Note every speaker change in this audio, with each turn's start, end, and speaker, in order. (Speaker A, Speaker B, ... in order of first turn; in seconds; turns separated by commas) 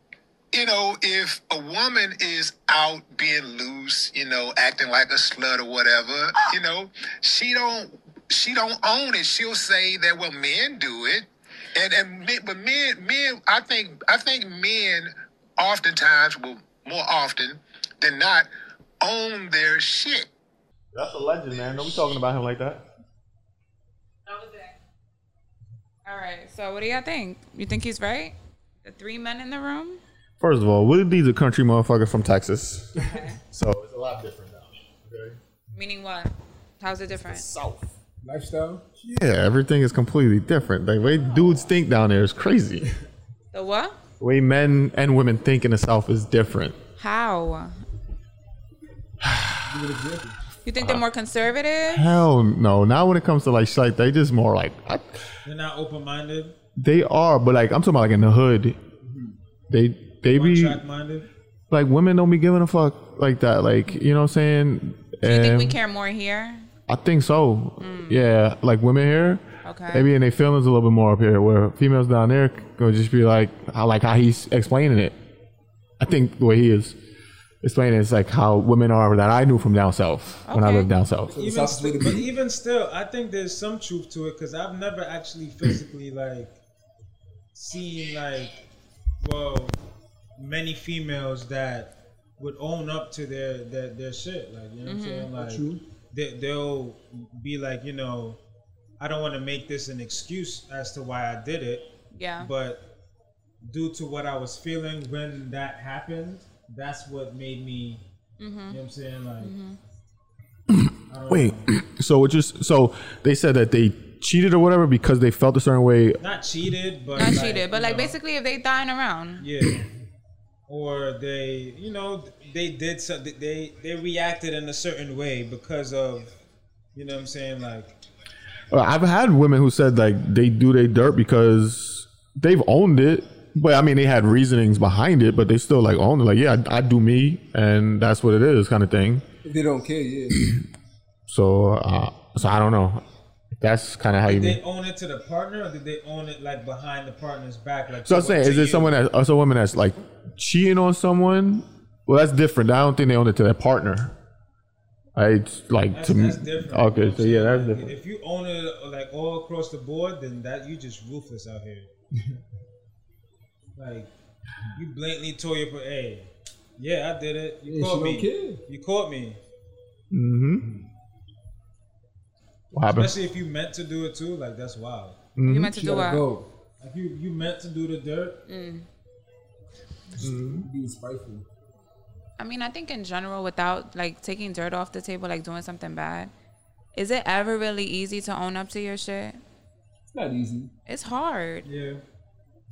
Speaker A: 0.5-18.5, Speaker A: 19.0-20.3, Speaker B: 20.9-22.8, Speaker C: 24.3-24.8, Speaker C: 26.0-30.0, Speaker B: 30.4-35.4, Speaker C: 33.0-33.4, Speaker C: 35.7-37.5, Speaker B: 37.2-37.9, Speaker D: 38.2-38.9, Speaker B: 39.0-42.9, Speaker C: 43.5-44.0, Speaker B: 44.2-46.8, Speaker C: 47.0-47.7, Speaker B: 49.2-49.6, Speaker D: 49.6-50.4, Speaker C: 50.6-52.2, Speaker B: 50.8-51.0, Speaker B: 51.9-55.0, Speaker E: 55.4-56.5, Speaker B: 56.8-58.8, Speaker D: 59.0-59.4, Speaker B: 59.7-60.8, Speaker E: 60.3-61.3, Speaker B: 61.7-65.8, Speaker C: 65.2-66.7, Speaker B: 66.9-75.1, Speaker C: 67.8-68.2, Speaker C: 69.6-70.1, Speaker B: 76.0-76.9, Speaker B: 77.6-81.3, Speaker C: 80.4-80.9, Speaker D: 81.3-82.3, Speaker E: 81.3-86.6, Speaker E: 87.5-88.6, Speaker E: 89.2-89.8, Speaker E: 90.3-98.4, Speaker C: 94.8-95.3, Speaker D: 95.3-95.8, Speaker E: 99.0-101.8, Speaker C: 102.1-102.5, Speaker E: 102.4-102.8, Speaker E: 103.6-108.0, Speaker C: 108.4-108.8, Speaker E: 108.7-109.5, Speaker C: 109.4-109.8, Speaker B: 110.7-116.2, Speaker E: 111.1-111.7, Speaker E: 116.2-118.2, Speaker C: 117.2-119.5, Speaker E: 119.4-119.8, Speaker E: 120.7-126.3, Speaker E: 126.9-127.9, Speaker B: 128.7-139.2, Speaker D: 139.4-140.4, Speaker B: 141.3-143.0, Speaker B: 143.6-144.6, Speaker E: 144.2-149.0, Speaker B: 148.0-154.1, Speaker B: 155.2-157.9, Speaker E: 155.9-161.9, Speaker E: 163.8-164.1, Speaker E: 164.7-169.4, Speaker D: 167.6-168.6, Speaker B: 170.1-170.6, Speaker B: 172.7-173.1, Speaker E: 172.9-175.2, Speaker B: 175.3-175.8, Speaker C: 175.4-176.2, Speaker D: 175.7-176.5, Speaker E: 176.8-178.4, Speaker C: 178.5-178.8, Speaker D: 180.1-181.4, Speaker B: 180.2-180.7, Speaker C: 182.4-186.3, Speaker C: 186.9-189.4, Speaker D: 190.1-190.7, Speaker C: 190.9-191.7, Speaker E: 191.6-192.0